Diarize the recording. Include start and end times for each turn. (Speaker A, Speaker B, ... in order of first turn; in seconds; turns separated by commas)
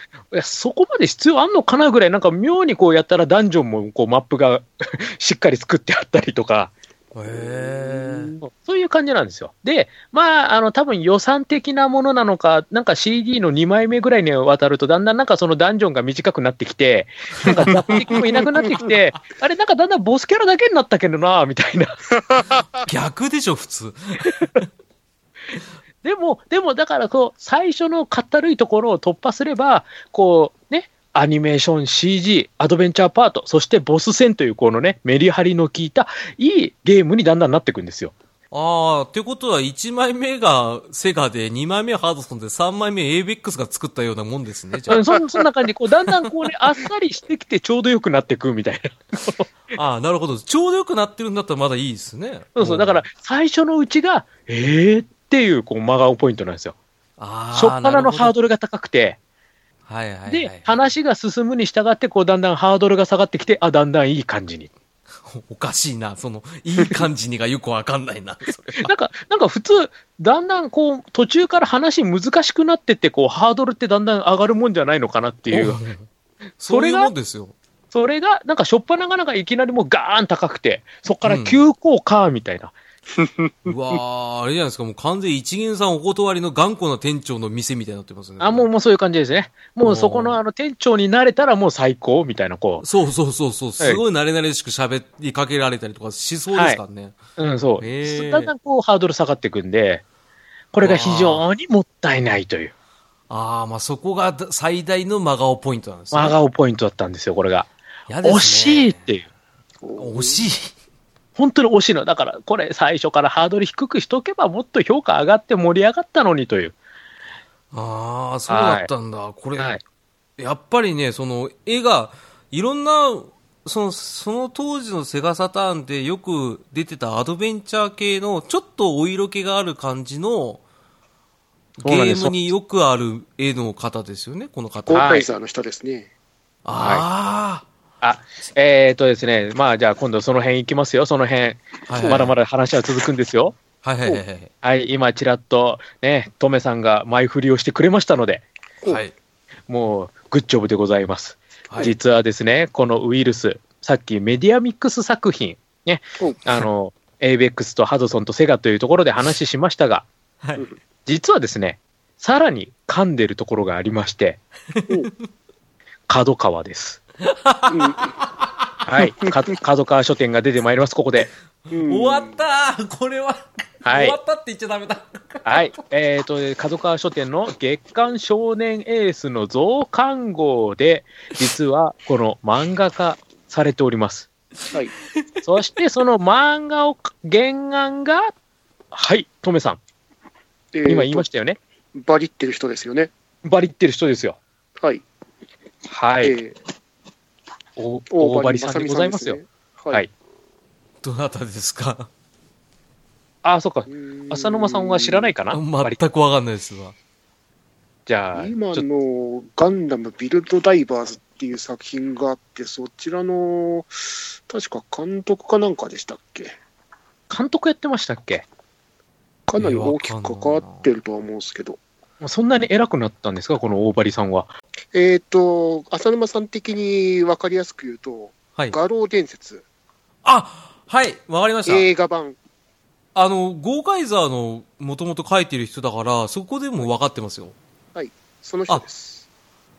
Speaker A: 0.3-6.7, Speaker B: 7.1-8.3, Speaker C: 7.3-8.3, Speaker A: 8.4-22.0, Speaker C: 18.0-18.4, Speaker B: 22.8-24.6, Speaker A: 26.0-38.1, Speaker B: 38.5-45.0, Speaker A: 44.9-49.5, Speaker B: 49.7-53.0, Speaker A: 52.5-56.7, Speaker B: 57.2-58.3, Speaker A: 57.5-59.2, Speaker B: 59.9-60.8, Speaker A: 60.3-64.7, Speaker B: 65.2-68.9, Speaker A: 68.8-75.8, Speaker B: 75.5-76.1, Speaker B: 76.6-77.5, Speaker A: 76.7-77.1, Speaker A: 77.9-82.7, Speaker B: 81.2-81.6, Speaker C: 83.2-83.7, Speaker B: 83.6-88.7, Speaker A: 88.4-92.8, Speaker B: 89.8-90.4, Speaker B: 92.8-97.2, Speaker A: 96.5-96.8, Speaker A: 97.4-100.0, Speaker B: 97.8-98.5, Speaker A: 100.7-102.7, Speaker B: 100.8-101.4, Speaker B: 103.3-106.3, Speaker A: 106.1-107.7, Speaker B: 108.1-109.1, Speaker A: 108.2-109.2, Speaker C: 109.8-110.4, Speaker B: 110.0-110.7, Speaker A: 111.3-116.7, Speaker B: 117.7-119.7, Speaker A: 118.5-118.9, Speaker B: 120.4-130.6, Speaker B: 131.8-135.1, Speaker A: 131.8-132.5, Speaker C: 134.8-136.1, Speaker A: 134.9-135.2, Speaker B: 136.6-137.7, Speaker A: 136.7-137.0, Speaker A: 138.0-143.6, Speaker B: 141.9-142.3, Speaker B: 143.8-144.5, Speaker A: 144.6-148.4, Speaker B: 148.8-149.1, Speaker A: 149.7-160.1, Speaker A: 161.1-164.4, Speaker B: 164.8-165.1, Speaker A: 166.1-167.0, Speaker B: 167.2-168.1, Speaker C: 167.7-168.1, Speaker A: 168.8-171.3, Speaker C: 171.7-172.4, Speaker B: 171.7-175.6, Speaker A: 173.8-174.2, Speaker A: 175.4-184.3, Speaker A: 185.4-188.3, Speaker A: 188.9-189.8, Speaker C: 190.7-191.2, Speaker A: 190.8-191.6, Speaker C: 191.9-193.1, Speaker A: 193.4-194.4, Speaker C: 194.8-195.0, Speaker A: 195.9-196.3, Speaker C: 196.2-196.6, Speaker A: 197.8-199.4, Speaker C: 198.1-200.0, Speaker B: 201.0-202.1, Speaker A: 203.4-206.0, Speaker C: 203.9-205.3, Speaker B: 205.5-206.9, Speaker A: 208.1-208.8, Speaker C: 208.3-216.6, Speaker A: 217.3-218.4, Speaker C: 219.5-221.8, Speaker B: 219.6-220.9, Speaker A: 222.2-224.5, Speaker C: 224.9-229.6, Speaker B: 230.2-231.9, Speaker C: 231.7-232.4, Speaker B: 233.1-237.6, Speaker C: 237.9-239.2